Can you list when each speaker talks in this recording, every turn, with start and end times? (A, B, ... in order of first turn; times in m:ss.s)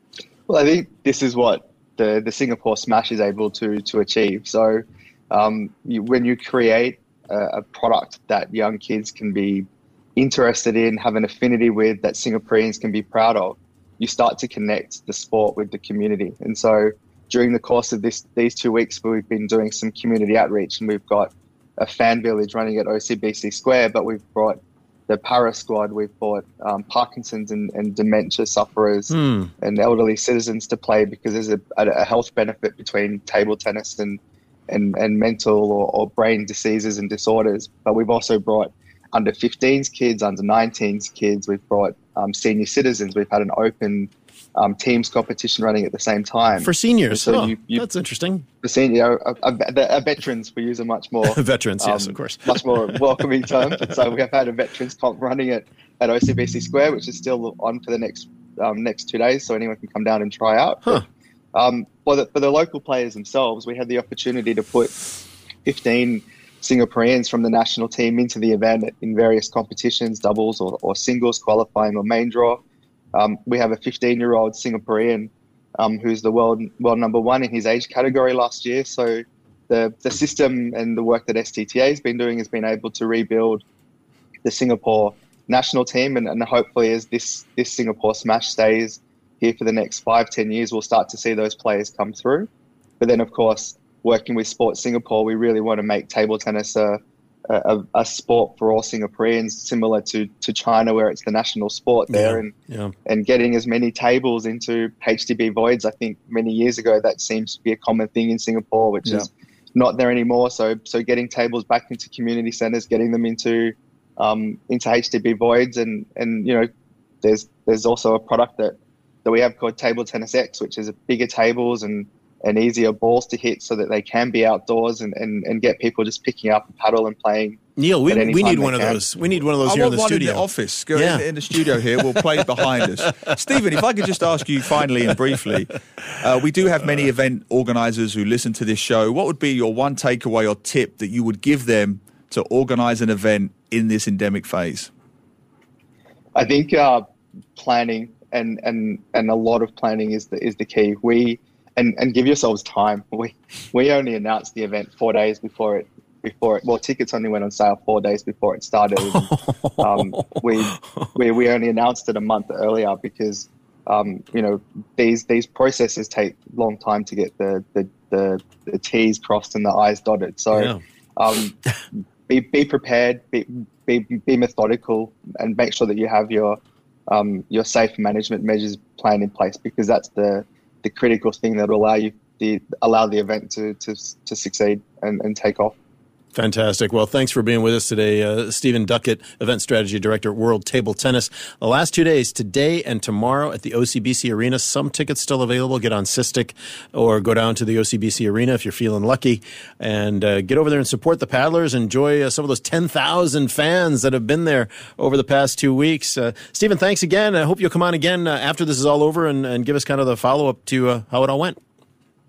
0:00.5-0:47.8 A
0:29.1-0:29.5 B
0:46.6-0:48.4 B
0:48.6-1:01.0 A
0:51.2-0:53.0 B
1:01.5-1:04.9 A
1:05.6-1:12.6 A
1:13.1-1:23.6 A
1:24.4-1:32.5 A
1:33.0-1:42.5 A
1:42.1-1:42.9 B
1:43.0-1:56.7 A
1:57.2-2:09.0 A
2:07.8-2:12.2 B
2:09.6-2:24.9 C
2:26.3-2:27.0 A
2:27.6-2:51.5 A
2:39.0-2:41.1 B
2:50.5-2:50.8 B
2:52.3-2:56.6 A
2:57.1-3:05.7 A
3:06.3-3:31.6 B